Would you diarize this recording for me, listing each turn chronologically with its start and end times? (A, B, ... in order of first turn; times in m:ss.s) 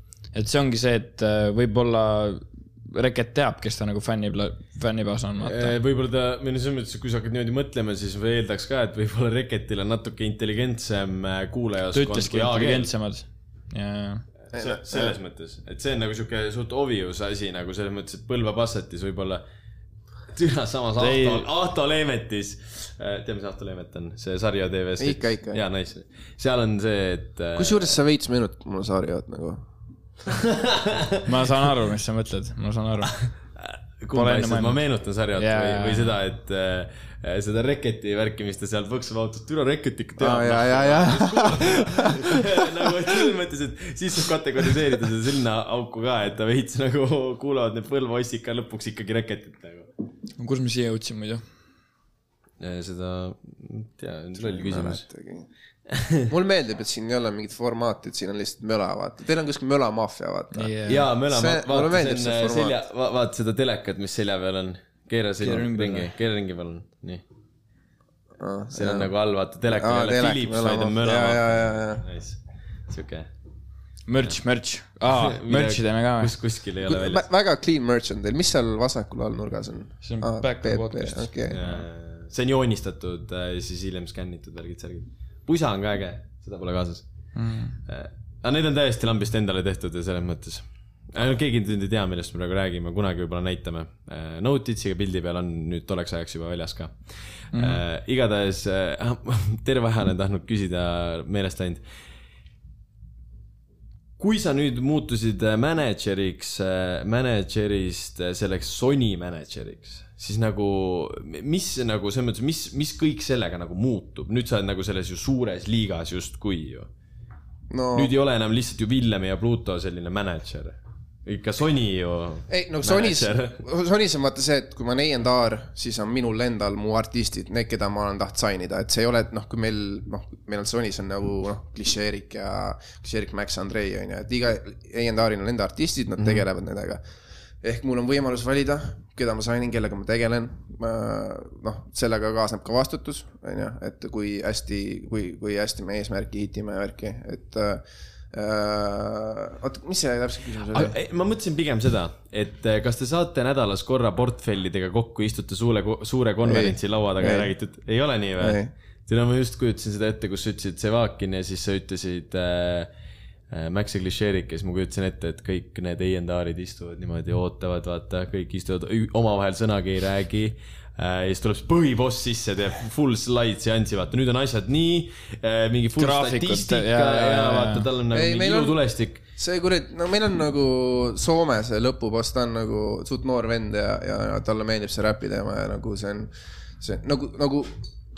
0:00.3-0:05.7 A
0:05.4-0:12.9 B
0:11.9-0:14.2 A
0:14.5-0:19.4 B
0:14.5-0:15.2 C
0:20.3-0:28.0 B
0:21.0-0:21.5 A
0:25.0-0:25.6 C
0:27.6-0:29.7 C
0:30.3-0:31.1 B
0:31.2-0:33.1 A
0:33.6-0:49.9 B
0:34.1-0:34.8 A
0:35.4-0:36.2 A
0:40.2-0:42.3 C
0:50.4-0:51.4 A
0:52.6-0:55.0 B
0:54.4-0:55.5 C
0:55.9-0:56.2 B
0:56.3-1:00.7 C
1:00.5-1:01.1 A
1:00.9-1:07.2 B
1:01.3-1:02.8 C
1:05.4-1:06.1 A
1:08.4-1:09.1 C
1:08.7-1:13.3 B
1:09.7-1:12.0 C
1:14.1-1:16.3 A
1:15.1-1:17.2 B
1:16.8-1:21.6 C
1:20.0-1:21.8 A
1:21.5-1:27.0 B
1:27.3-1:27.8 A
1:27.8-1:37.0 B
1:37.5-1:41.8 B
1:37.5-1:37.8 A
1:44.2-1:56.9 B
1:57.7-1:58.1 C
1:57.9-2:03.6 B
2:02.5-2:17.0 C
2:17.6-2:31.0 C
2:30.7-2:42.9 B
2:36.4-2:37.5 C
2:38.4-2:38.7 C
2:43.5-2:59.2 B
2:56.0-2:57.8 A
2:58.1-2:58.8 C
2:59.4-3:07.8 C